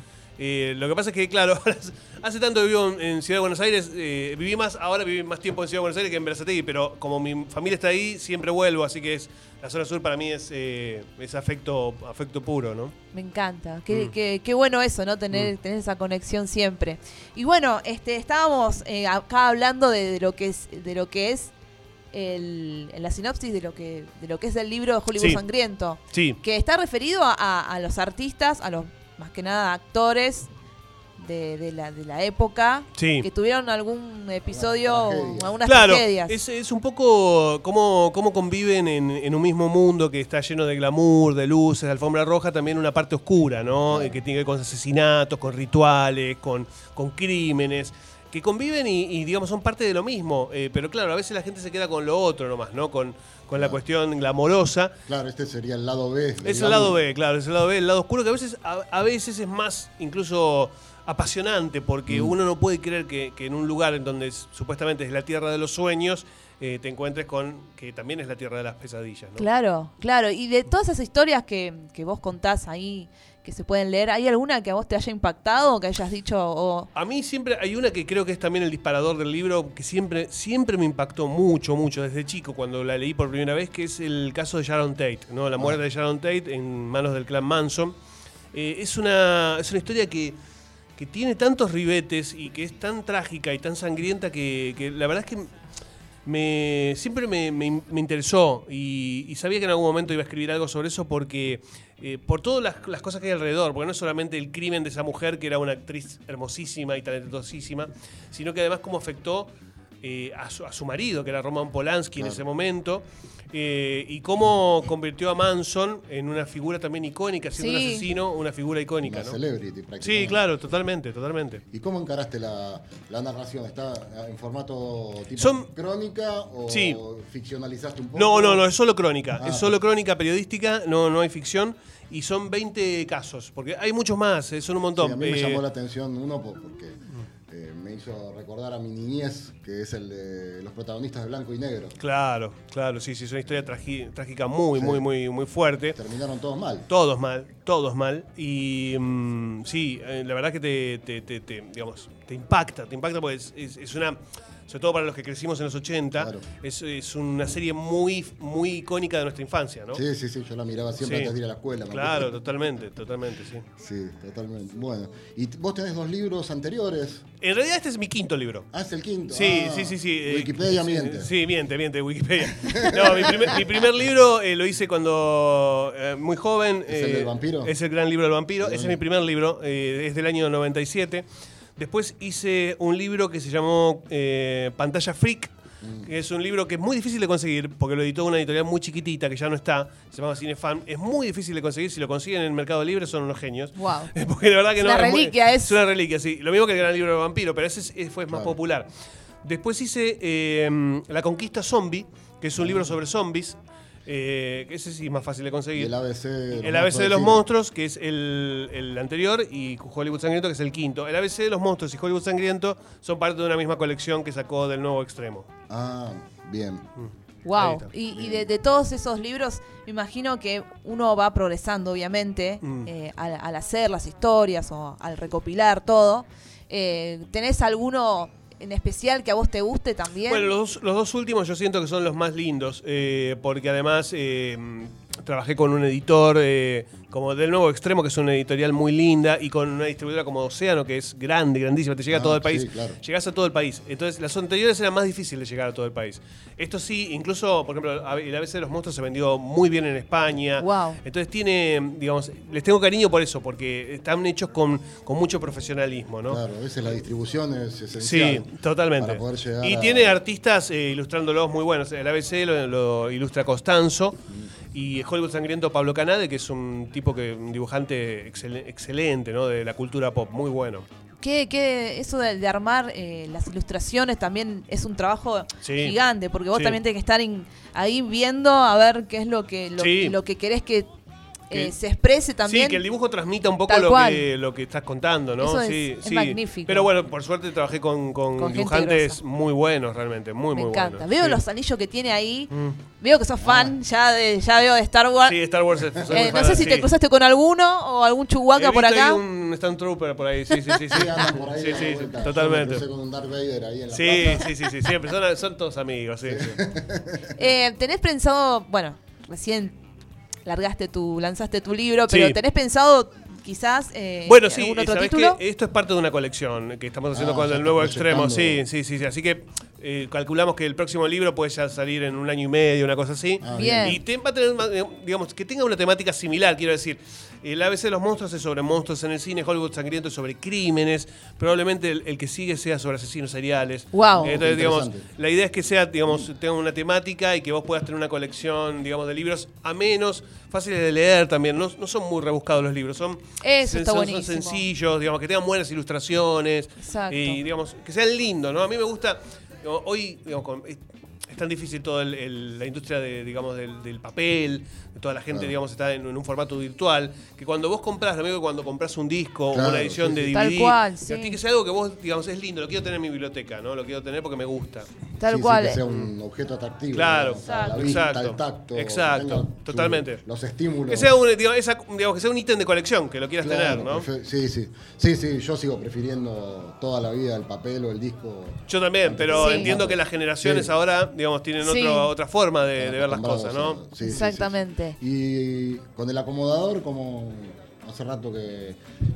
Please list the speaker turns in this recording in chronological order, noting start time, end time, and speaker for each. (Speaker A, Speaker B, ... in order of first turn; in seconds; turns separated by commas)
Speaker A: 0.4-12.9, Speaker B: 13.1-21.5, Speaker B: 22.1-30.5, Speaker A: 25.1-25.4, Speaker A: 26.1-26.4, Speaker B: 31.2-36.4, Speaker A: 33.0-33.3, Speaker C: 34.5-35.6, Speaker A: 35.7-54.9, Speaker C: 43.8-44.2, Speaker C: 53.5-53.8, Speaker C: 55.1-57.0, Speaker A: 56.4-69.5, Speaker C: 62.1-62.3, Speaker B: 69.4-76.9, Speaker A: 77.0-88.0, Speaker A: 88.5-90.4, Speaker A: 91.0-95.5, Speaker A: 96.2-119.4, Speaker C: 112.2-112.4, Speaker B: 117.6-118.0, Speaker C: 119.0-120.4, Speaker A: 120.0-121.6, Speaker C: 121.7-128.7, Speaker A: 125.4-125.7, Speaker A: 126.7-127.0, Speaker A: 128.2-135.6, Speaker C: 129.4-129.8, Speaker C: 134.9-137.0, Speaker C: 137.5-142.0, Speaker A: 142.0-146.0, Speaker C: 144.7-145.1, Speaker C: 145.9-146.9, Speaker A: 146.9-160.0, Speaker C: 156.2-156.4, Speaker C: 159.9-162.4, Speaker A: 161.0-161.4, Speaker A: 161.9-163.7, Speaker C: 163.8-167.2, Speaker A: 167.4-168.7, Speaker C: 168.7-171.3, Speaker A: 169.3-181.2, Speaker C: 172.4-173.6, Speaker C: 176.9-177.7, Speaker C: 178.6-179.0, Speaker A: 181.8-185.5, Speaker C: 185.8-186.1, Speaker A: 186.0-198.9, Speaker B: 193.8-194.1, Speaker B: 194.8-195.8, Speaker C: 198.3-198.6, Speaker A: 199.4-205.9, Speaker C: 202.6-203.0, Speaker C: 205.8-207.4, Speaker A: 206.5-215.5, Speaker C: 215.7-216.9, Speaker A: 217.0-217.9, Speaker B: 217.4-230.5, Speaker C: 218.1-218.5, Speaker A: 222.6-222.9, Speaker A: 230.3-256.4, Speaker C: 242.1-243.0, Speaker B: 250.6-251.0, Speaker C: 256.2-260.2, Speaker A: 258.0-264.2, Speaker A: 264.7-270.9, Speaker B: 271.2-280.9, Speaker A: 275.6-275.9, Speaker A: 276.5-276.8, Speaker A: 279.8-280.2, Speaker B: 281.5-282.8, Speaker A: 282.4-291.4, Speaker B: 283.7-284.3, Speaker B: 285.4-286.9, Speaker B: 288.4-289.2, Speaker B: 290.5-295.4, Speaker A: 292.5-292.8, Speaker C: 293.4-293.8, Speaker A: 295.2-296.9, Speaker C: 296.0-296.4, Speaker B: 296.1-299.2, Speaker A: 298.6-302.9, Speaker C: 300.9-304.5, Speaker A: 303.9-306.6, Speaker C: 306.2-307.4, Speaker B: 307.4-309.8, Speaker B: 310.4-315.4, Speaker A: 312.1-312.4, Speaker A: 314.2-364.9, Speaker C: 317.1-318.6, Speaker C: 323.4-324.0, Speaker B: 323.5-324.0, Speaker B: 333.9-334.4, Speaker C: 334.1-335.1, Speaker B: 343.4-344.7, Speaker B: 346.8-347.4, Speaker C: 359.5-360.3, Speaker B: 360.3-361.4, Speaker B: 365.2-365.8, Speaker C: 365.2-371.1, Speaker A: 366.9-370.2, Speaker B: 367.4-368.0, Speaker A: 370.9-374.1, Speaker C: 373.4-380.7, Speaker A: 378.7-383.8, Speaker B: 379.4-379.8, Speaker B: 381.6-382.1, Speaker C: 382.8-388.8, Speaker B: 384.0-385.0